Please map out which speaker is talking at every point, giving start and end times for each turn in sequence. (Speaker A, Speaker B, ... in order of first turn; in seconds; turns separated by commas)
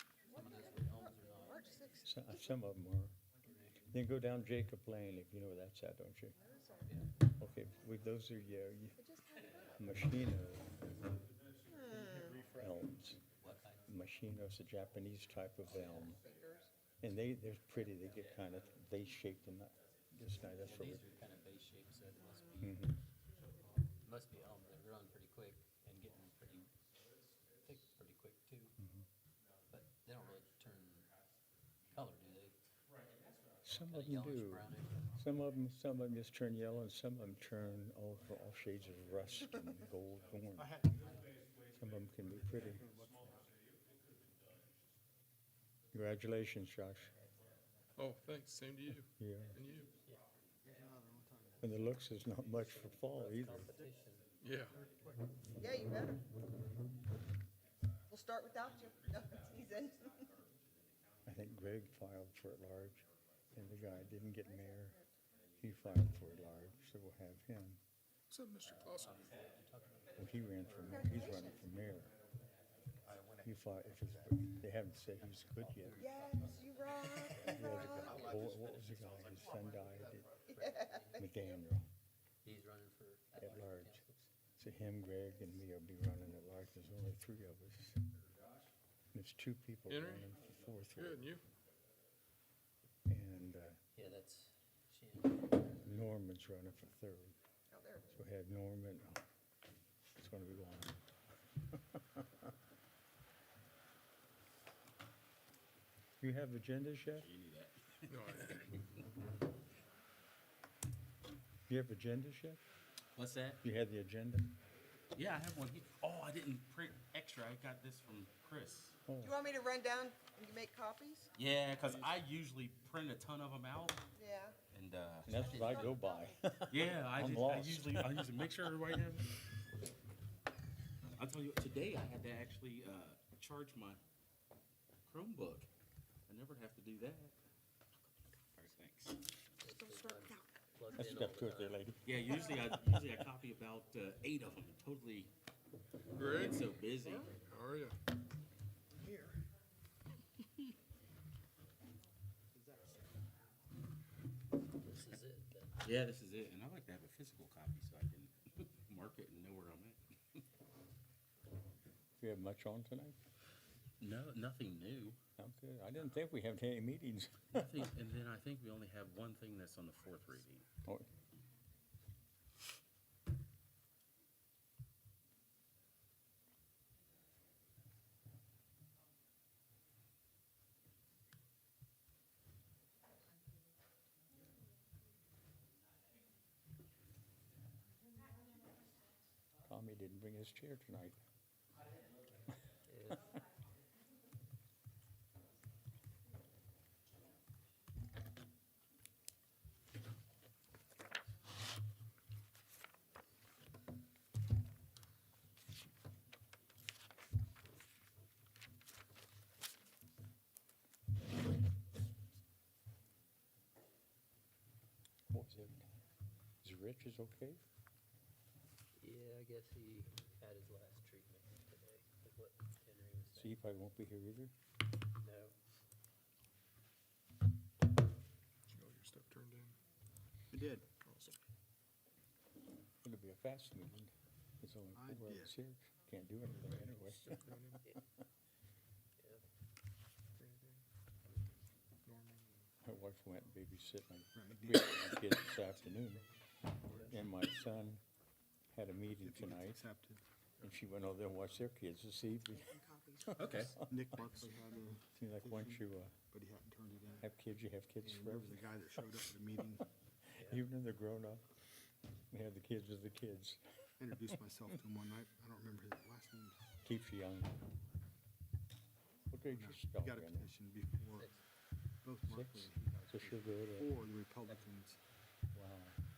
Speaker A: 0.2-1.8, Speaker B: 0.2-2.5, Speaker C: 2.0-3.1, Speaker A: 3.5-3.9, Speaker C: 3.9-6.4, Speaker B: 6.3-6.9, Speaker C: 7.4-9.0, Speaker B: 9.0-10.0, Speaker C: 9.8-10.8, Speaker B: 11.7-12.6, Speaker C: 12.4-13.2, Speaker A: 13.4-13.9, Speaker C: 13.9-16.2, Speaker A: 15.6-16.2, Speaker B: 15.8-16.7, Speaker C: 17.0-21.1, Speaker A: 20.5-22.9, Speaker C: 22.6-23.0, Speaker A: 24.0-26.7, Speaker A: 27.6-28.8, Speaker C: 28.8-29.1, Speaker A: 29.7-31.1, Speaker A: 31.9-32.6, Speaker C: 33.6-40.8, Speaker A: 33.8-35.1, Speaker D: 40.6-41.0, Speaker A: 41.0-41.3, Speaker C: 41.7-42.9, Speaker D: 42.6-43.5, Speaker C: 45.9-47.1, Speaker E: 48.0-49.9, Speaker C: 49.2-49.6, Speaker D: 50.6-51.7, Speaker C: 51.6-53.8, Speaker A: 52.2-54.3, Speaker E: 54.4-54.8, Speaker B: 55.5-56.2, Speaker B: 58.1-60.3, Speaker C: 61.3-65.0, Speaker B: 64.2-65.1, Speaker C: 65.6-67.8, Speaker E: 68.3-69.1, Speaker A: 68.7-71.1, Speaker C: 70.2-72.2, Speaker B: 70.7-71.7, Speaker D: 73.1-73.5, Speaker C: 73.4-76.1, Speaker A: 75.1-79.2, Speaker B: 76.0-78.4, Speaker C: 77.3-80.3, Speaker A: 80.3-81.4, Speaker B: 80.4-81.6, Speaker C: 81.2-81.9, Speaker A: 82.4-84.3, Speaker C: 83.4-84.0, Speaker C: 84.6-88.0, Speaker C: 89.1-91.4, Speaker E: 89.9-90.3, Speaker E: 90.9-91.4, Speaker C: 93.1-93.8, Speaker A: 94.0-96.0, Speaker C: 95.8-97.4, Speaker B: 97.7-98.2, Speaker C: 98.1-99.2, Speaker C: 100.2-101.0, Speaker C: 101.7-102.5, Speaker C: 106.2-107.3, Speaker F: 107.2-108.9, Speaker E: 108.1-108.6, Speaker C: 111.7-112.6, Speaker F: 113.2-113.7, Speaker C: 113.6-114.5, Speaker F: 115.1-119.0, Speaker C: 119.1-119.4, Speaker B: 119.2-121.3, Speaker F: 121.3-124.1, Speaker B: 124.2-124.6, Speaker F: 124.7-125.8, Speaker B: 125.2-126.4, Speaker C: 125.2-129.0, Speaker A: 125.6-126.0, Speaker F: 126.7-129.4, Speaker F: 131.2-134.0, Speaker F: 135.1-135.7, Speaker F: 136.3-137.4, Speaker F: 138.6-139.2, Speaker A: 139.6-141.9, Speaker B: 139.6-140.5, Speaker C: 141.0-143.1, Speaker F: 142.0-145.3, Speaker E: 146.2-148.0, Speaker F: 146.2-147.4, Speaker D: 149.0-149.4, Speaker D: 152.5-153.1, Speaker A: 154.8-155.8, Speaker F: 155.8-160.4, Speaker C: 162.2-163.2, Speaker F: 164.0-165.2, Speaker C: 165.4-167.9, Speaker F: 167.5-170.7, Speaker C: 189.7-191.2, Speaker A: 192.9-193.3, Speaker C: 215.3-215.9, Speaker C: 216.6-217.6, Speaker A: 219.0-223.6, Speaker C: 223.3-224.5, Speaker A: 225.2-225.6, Speaker E: 228.7-229.8, Speaker D: 230.5-230.9, Speaker E: 231.0-231.4, Speaker C: 233.0-237.4, Speaker D: 234.9-235.6, Speaker E: 236.9-237.8, Speaker A: 239.2-239.4, Speaker E: 240.4-240.8, Speaker E: 242.1-242.7, Speaker C: 242.8-246.2, Speaker D: 244.3-245.4, Speaker A: 246.9-247.2, Speaker D: 246.9-247.2, Speaker C: 246.9-248.0, Speaker C: 248.7-249.8, Speaker D: 249.1-250.2, Speaker C: 250.6-253.8, Speaker B: 252.4-254.6, Speaker F: 253.4-253.8, Speaker D: 253.8-257.3, Speaker C: 255.1-256.2, Speaker C: 257.2-259.1, Speaker D: 258.0-259.9, Speaker A: 260.4-260.6, Speaker C: 260.4-261.5, Speaker C: 262.3-263.6, Speaker D: 264.0-266.7, Speaker C: 266.8-267.6, Speaker C: 269.3-270.5, Speaker D: 269.5-271.3, Speaker A: 271.1-271.4, Speaker D: 272.0-275.0, Speaker C: 272.3-273.9, Speaker C: 275.5-276.0